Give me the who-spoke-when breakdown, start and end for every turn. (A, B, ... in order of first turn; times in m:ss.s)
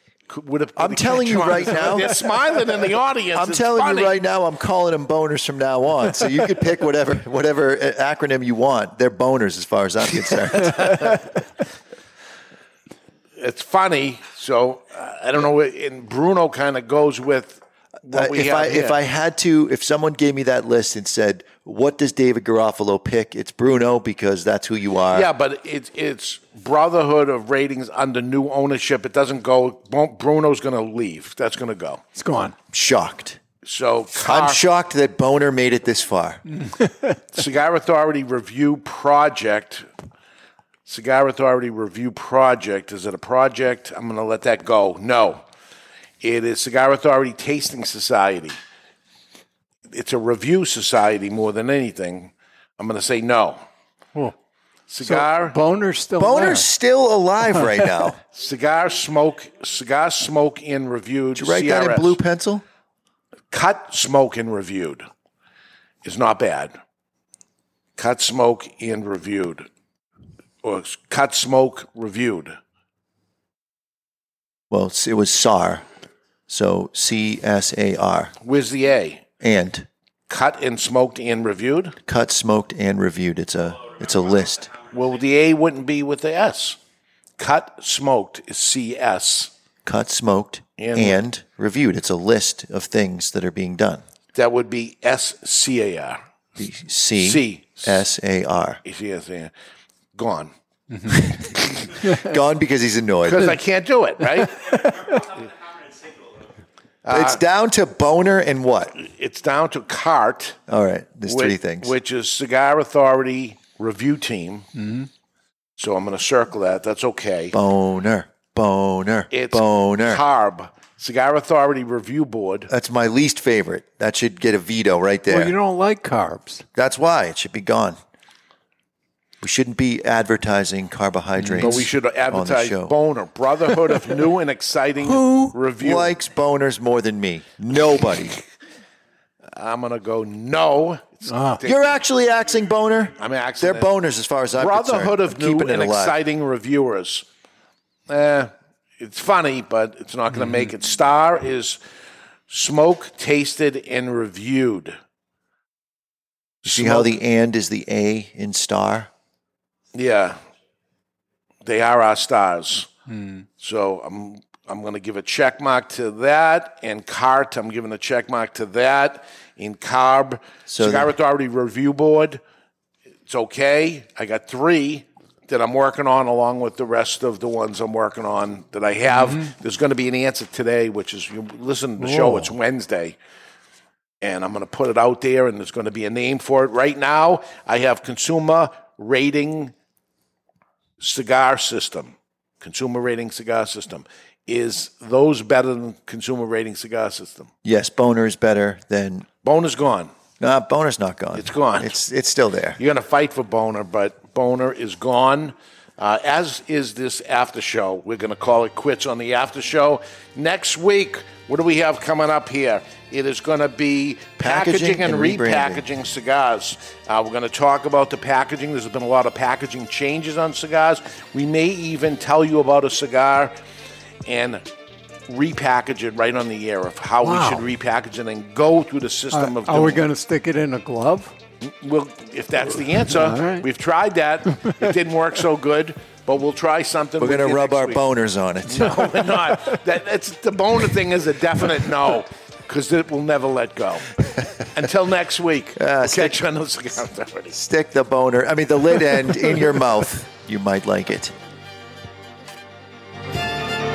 0:00.3-0:04.2 A
0:00.8-0:02.1 B
0:03.4-0:10.9 B
0:13.4-0:19.0 A
0:18.1-0:25.3 B
0:25.1-0:32.0 A
0:32.2-0:32.6 C
0:32.7-0:33.4 B
0:33.6-0:34.6 A
0:34.3-0:36.4 B
0:36.6-0:37.2 C
0:37.3-0:39.9 A
0:40.9-0:45.4 A
0:46.2-0:48.6 A
0:49.9-0:53.6 A
0:54.9-0:55.6 A
0:55.0-0:56.7 C
0:56.2-0:58.2 B
0:58.3-1:02.2 A
1:01.4-1:02.6 B
1:03.5-1:05.0 A
1:06.0-1:06.7 A
1:08.0-1:09.7 A
1:10.6-1:12.6 A
1:14.7-1:15.8 B
1:16.5-1:18.3 B
1:18.4-1:19.2 A
1:19.4-1:19.9 B
1:20.3-1:22.0 A
1:22.1-1:24.7 B
1:24.9-1:26.8 A
1:27.4-1:29.5 A
1:29.9-1:34.0 B
1:30.8-1:31.2 A
1:34.4-1:36.2 A
1:36.6-1:38.8 B
1:37.2-1:38.1 A
1:38.8-1:39.5 A
1:40.2-1:40.5 A
1:40.9-1:41.2 C
1:42.2-1:43.5 B
1:43.2-1:44.8 A
1:47.0-1:47.4 A
1:47.1-1:48.9 B
1:49.0-1:50.6 A
1:50.7-1:51.9 B
1:51.3-1:54.7 A
1:54.8-1:55.1 C
1:55.8-1:57.6 A
1:57.5-2:00.2 B
1:59.3-2:02.7 A
2:02.7-2:05.5 B
2:05.3-2:06.6 C
2:06.8-2:08.0 B
2:09.4-2:12.9 B
2:11.4-2:11.8 C
2:11.6-2:16.2 A
2:15.0-2:18.4 B
2:19.5-2:22.0 A
2:21.3-2:21.6 C
2:21.7-2:23.1 B
2:23.2-2:23.9 A
2:23.6-2:26.1 B
2:24.6-2:27.2 A
2:28.1-2:31.8 A
2:32.5-2:35.0 A
2:36.6-2:37.2 A
2:36.7-2:39.1 B
2:39.9-2:40.4 A
2:41.6-2:42.9 A
2:43.1-2:43.4 C
2:43.6-2:52.4 A
2:50.7-2:51.1 B
2:53.3-3:03.2 A
3:02.0-3:02.5 C
3:04.2-3:09.7 A
3:11.0-3:17.5 A
3:17.6-3:19.3 B
3:19.4-3:20.1 A
3:20.4-3:22.8 B
3:21.3-3:22.0 A
3:22.8-3:43.5 A
3:34.4-3:35.8 B
3:44.3-3:44.6 A
3:45.3-3:50.0 A
3:47.2-3:47.6 C
3:49.3-3:51.4 C
3:51.6-3:58.0 A
3:53.1-3:53.7 C
3:57.2-3:59.0 B
3:58.7-4:07.6 A
4:05.8-4:06.4 B
4:07.5-4:11.3 B